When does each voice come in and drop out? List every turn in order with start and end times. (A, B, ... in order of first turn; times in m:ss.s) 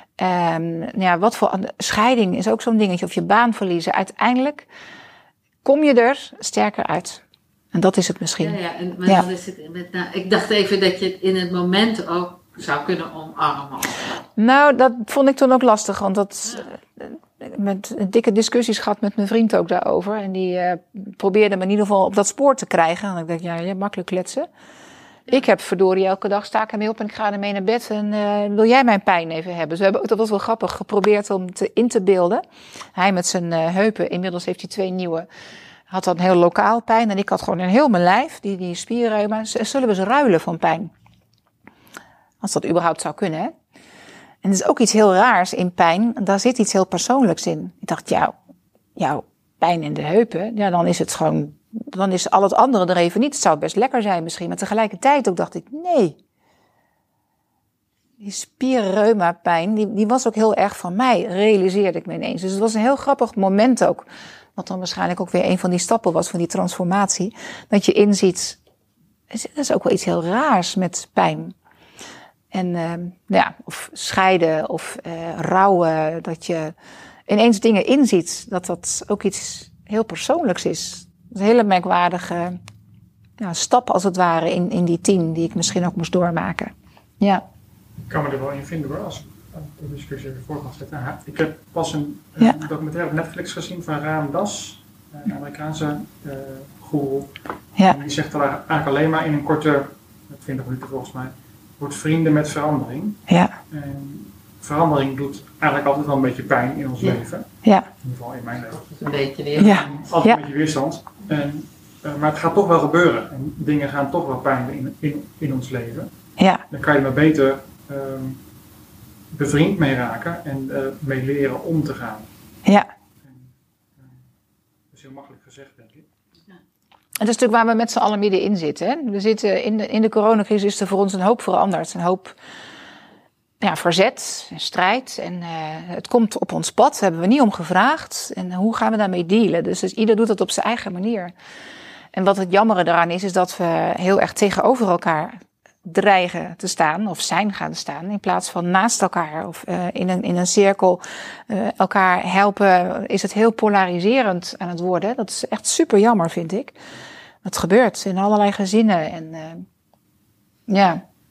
0:00.2-0:04.7 A
0:05.6-0:07.2 A
0:07.7-0:09.2 A
0:08.4-0:14.2 B
0:14.4-0:24.5 A
0:25.3-0:32.4 A
0:33.0-0:35.3 A
0:35.9-0:40.9 A
0:42.4-0:43.5 A
0:44.4-0:48.3 A
0:49.0-0:56.2 A
0:58.2-1:08.6 A
1:09.3-1:11.5 A
1:12.5-1:16.7 A
1:17.3-1:22.6 A
1:23.4-1:27.4 A
1:28.1-1:56.1 C
1:43.3-1:43.6 A
1:48.9-1:49.9 B
1:49.6-1:50.4 A
1:56.4-1:56.6 A
1:56.7-1:58.4 C
1:59.3-2:02.3 C
2:03.2-2:04.2 C
2:04.9-2:06.1 C
2:07.2-2:12.4 A
2:13.6-2:21.3 A
2:22.1-2:36.8 A
2:37.4-2:39.7 A
2:40.7-2:41.0 A